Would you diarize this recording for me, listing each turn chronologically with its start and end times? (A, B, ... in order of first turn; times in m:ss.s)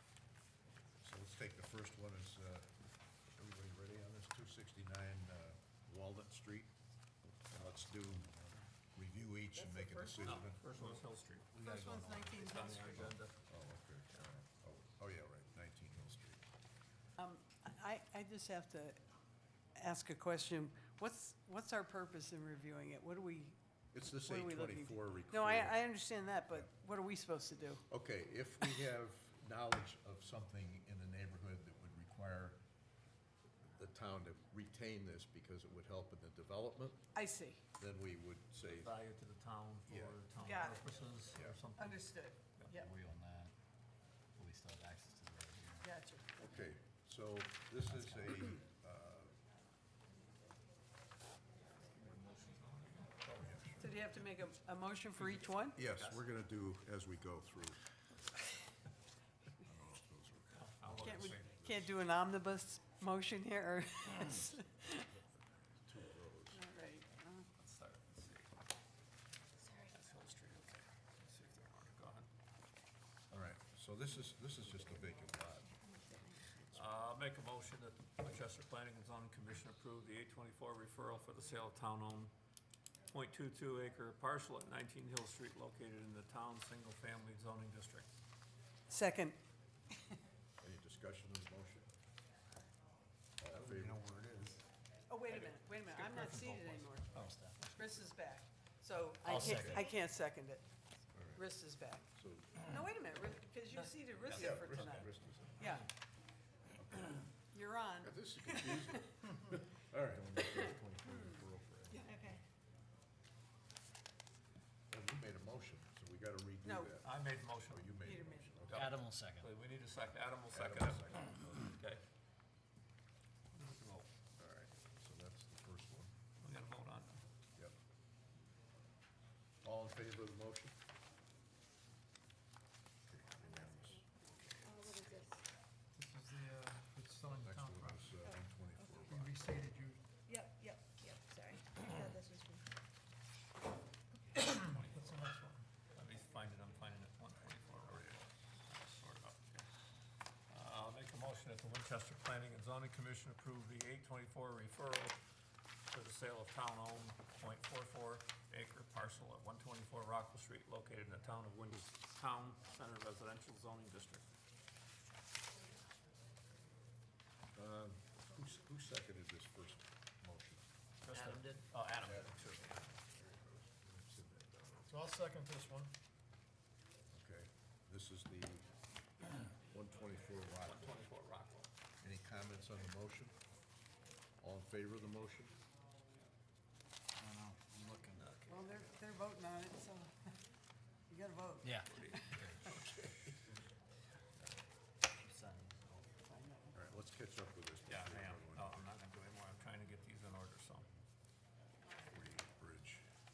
0:01.0-0:02.7 A
0:03.3-0:06.7 A
0:07.5-0:08.6 B
0:07.5-0:08.3 A
0:08.9-0:10.7 A
0:09.6-0:10.2 C
0:10.2-0:11.6 D
0:11.6-0:12.3 B
0:11.6-0:13.1 C
0:12.1-0:13.5 D
0:12.9-0:16.4 A
0:17.2-0:19.0 C
0:19.8-0:27.8 C
0:23.9-0:25.9 A
0:27.9-0:32.6 A
0:33.7-0:37.1 A
0:37.1-0:37.6 C
0:37.8-0:38.9 A
0:38.7-0:42.8 D
0:39.9-0:40.2 A
0:40.4-0:40.9 C
0:41.3-0:41.6 A
0:41.8-0:42.9 C
0:42.7-0:43.5 B
0:44.4-0:45.9 B
0:45.8-0:46.3 C
0:46.4-0:49.4 A
0:47.9-0:48.3 B
0:51.8-0:53.2 D
0:53.2-0:54.0 A
0:53.8-0:55.8 C
0:55.1-0:56.3 D
0:55.7-0:57.8 A
0:59.6-1:01.9 A
1:00.5-1:01.7 D
1:01.0-1:05.1 C
1:05.8-1:06.6 A
1:06.5-1:07.5 C
1:07.5-1:08.5 D
1:09.6-1:09.9 E
1:09.9-1:12.3 D
1:13.3-1:15.7 A
1:15.4-1:16.8 E
1:16.7-1:22.3 D
1:23.1-1:28.1 D
1:28.9-1:29.4 C
1:30.6-1:31.9 A
1:33.4-1:34.0 A
1:33.5-1:34.6 B
1:35.1-1:37.1 C
1:35.3-1:38.1 D
1:36.5-1:37.6 B
1:37.7-1:40.6 C
1:39.2-1:39.8 B
1:39.3-1:39.7 D
1:39.5-1:39.8 A
1:39.6-1:40.0 E
1:41.1-1:41.4 A
1:41.3-1:45.9 C
1:42.1-1:42.7 A
1:44.2-1:45.0 D
1:44.3-1:45.8 A
1:46.8-1:47.2 A
1:47.5-1:49.3 C
1:48.0-1:50.5 A
1:50.2-1:52.0 B
1:50.4-1:52.0 C
1:51.9-1:52.4 E
1:54.9-1:58.9 A
1:56.6-1:56.9 C
1:57.0-1:58.0 D
1:58.0-1:58.7 C
1:58.7-2:02.0 D
1:58.7-1:59.5 B
2:00.5-2:01.7 A
2:03.5-2:04.1 D
2:04.4-2:06.1 A
2:06.4-2:07.2 D
2:09.6-2:10.7 A
2:13.0-2:14.0 A
2:13.4-2:15.4 E
2:14.4-2:15.0 D
2:16.0-2:18.2 F
2:17.3-2:19.4 A
2:18.9-2:20.0 F
2:20.3-2:22.6 E
2:24.4-2:25.6 F
2:24.5-2:25.3 D
2:25.9-2:29.6 D
2:27.8-2:28.2 A
2:30.5-2:35.2 D
2:35.9-2:44.2 D
2:47.5-2:50.7 A
2:51.0-2:52.8 D
2:51.1-2:51.4 B
2:52.0-2:54.9 A
2:54.9-2:55.9 F
2:57.1-2:58.6 A
2:59.7-3:01.0 A
3:00.6-3:01.7 D
3:02.0-3:03.3 A
3:04.4-3:05.5 A
3:07.2-3:08.3 B
3:08.1-3:08.9 D
3:08.5-3:10.4 C
3:11.1-3:12.4 C
3:11.6-3:12.6 B
3:11.8-3:13.1 D
3:12.7-3:13.4 A
3:15.2-3:16.0 B
3:16.3-3:16.8 C
3:16.7-3:18.9 A
3:17.9-3:20.9 D
3:22.1-3:23.0 A